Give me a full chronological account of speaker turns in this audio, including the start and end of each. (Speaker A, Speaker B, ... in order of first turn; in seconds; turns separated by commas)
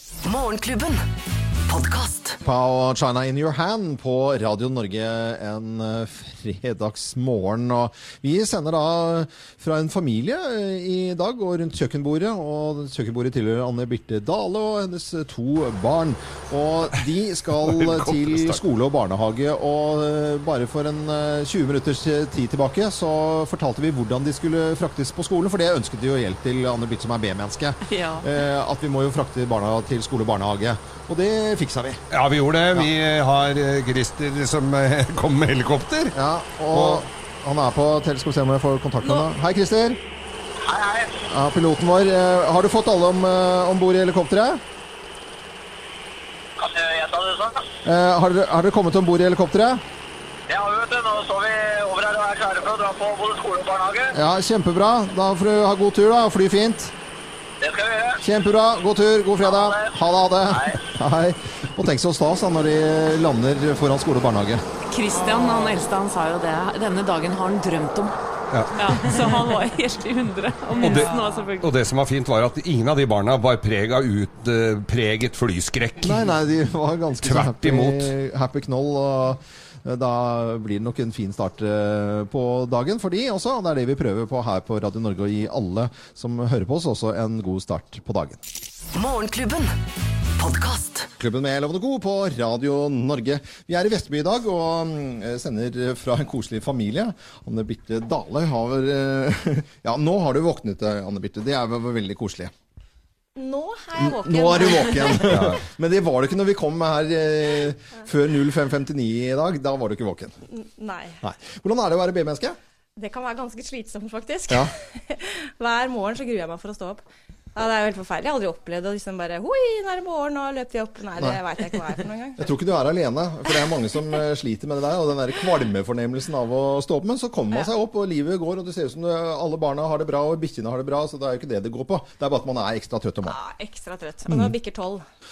Speaker A: 2.4-32.0, Speaker B: 17.6-18.6, Speaker C: 27.9-28.2, Speaker B: 32.1-36.1, Speaker A: 36.1-40.0, Speaker B: 36.7-37.0, Speaker D: 40.6-41.1, Speaker A: 41.3-44.6, Speaker D: 46.6-47.6, Speaker A: 47.8-49.8, Speaker D: 50.5-54.1, Speaker A: 54.1-56.9, Speaker D: 57.6-58.2, Speaker A: 58.2-64.6, Speaker D: 59.4-59.9, Speaker D: 60.5-60.8, Speaker C: 64.9-68.1, Speaker B: 68.5-69.3, Speaker C: 68.7-71.7, Speaker B: 70.8-76.3, Speaker A: 76.0-88.4, Speaker B: 77.2-78.1, Speaker A: 91.2-102.5, Speaker E: 103.3-105.4, Speaker A: 104.0-110.4, Speaker B: 105.3-105.6, Speaker E: 110.5-111.2, Speaker A: 111.2-112.6, Speaker E: 113.0-117.0, Speaker E: 117.5-122.4, Speaker A: 122.4-133.3, Speaker E: 133.2-135.0, Speaker A: 134.3-134.5